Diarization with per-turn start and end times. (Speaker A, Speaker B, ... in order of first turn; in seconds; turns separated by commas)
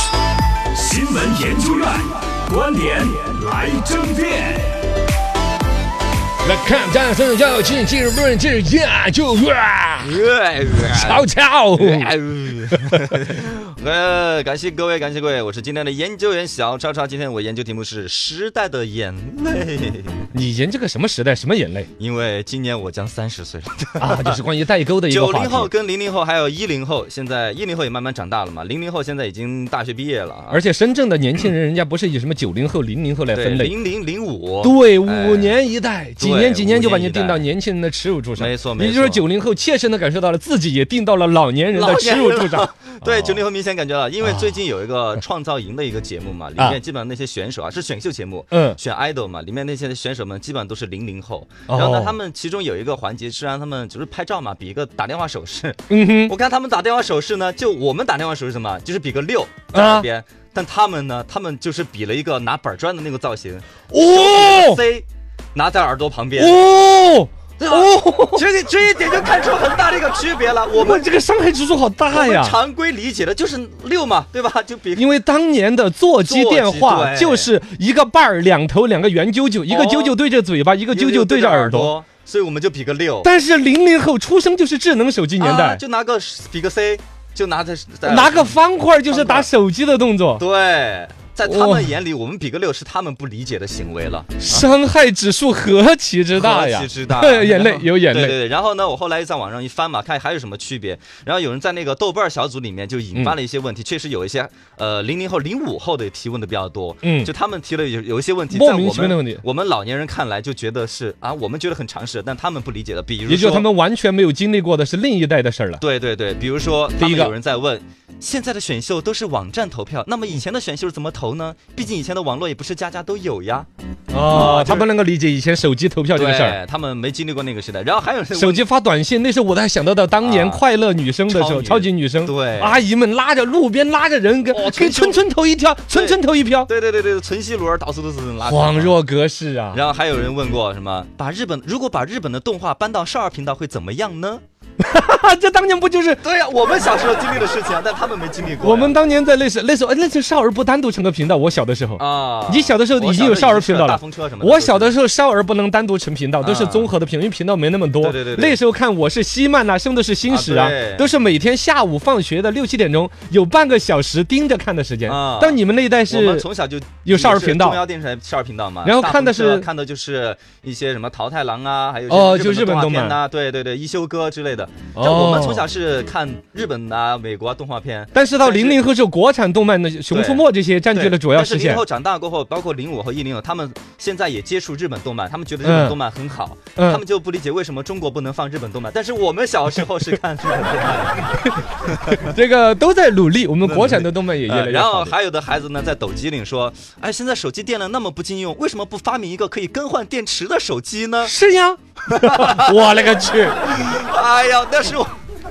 Speaker A: 0.7-4.7, Speaker B: 6.4-10.2, Speaker C: 10.0-20.3, Speaker B: 10.8-12.1, Speaker B: 20.3-21.9, Speaker C: 22.0-24.4, Speaker B: 24.0-25.7, Speaker C: 25.1-30.6, Speaker B: 30.5-33.7, Speaker C: 33.3-35.5, Speaker B: 34.6-43.3, Speaker C: 36.2-37.4, Speaker C: 38.4-39.2, Speaker C: 41.7-66.6, Speaker B: 48.5-48.8, Speaker B: 51.7-52.1, Speaker B: 55.9-56.3, Speaker B: 59.7-60.1, Speaker B: 63.9-64.8, Speaker B: 66.3-68.5, Speaker C: 67.6-71.1, Speaker B: 70.8-72.6, Speaker C: 72.1-75.1, Speaker B: 75.0-81.9, Speaker C: 76.2-77.5, Speaker C: 79.7-80.2, Speaker C: 80.9-83.3, Speaker B: 83.2-85.8, Speaker C: 85.4-89.5, Speaker B: 88.0-90.4, Speaker C: 90.4-94.6, Speaker B: 91.4-91.9, Speaker B: 94.4-98.4, Speaker C: 96.3-113.7, Speaker B: 107.0-107.3, Speaker B: 108.5-109.4, Speaker B: 113.3-115.8, Speaker C: 115.8-123.7, Speaker B: 117.0-117.3, Speaker B: 124.1-126.6, Speaker C: 124.2-124.9, Speaker C: 126.1-128.7, Speaker B: 128.3-136.7, Speaker C: 130.2-130.6, Speaker C: 131.3-132.8, Speaker C: 134.5-135.2, Speaker C: 135.9-138.9, Speaker B: 138.4-139.8, Speaker C: 139.7-144.4, Speaker B: 144.8-146.2, Speaker C: 146.2-148.9, Speaker B: 148.6-166.4, Speaker C: 152.0-154.9, Speaker C: 156.4-156.9, Speaker C: 158.0-158.6, Speaker C: 160.3-161.1, Speaker C: 165.1-178.8, Speaker B: 167.0-167.8, Speaker B: 168.8-169.7, Speaker B: 172.1-173.2, Speaker B: 174.9-175.6, Speaker B: 178.1-181.8, Speaker C: 180.1-191.3, Speaker B: 185.6-186.0, Speaker B: 186.8-187.0, Speaker B: 191.4-195.1, Speaker C: 191.8-192.3, Speaker C: 193.6-201.3, Speaker B: 201.2-203.7, Speaker C: 202.1-202.7, Speaker C: 203.7-205.1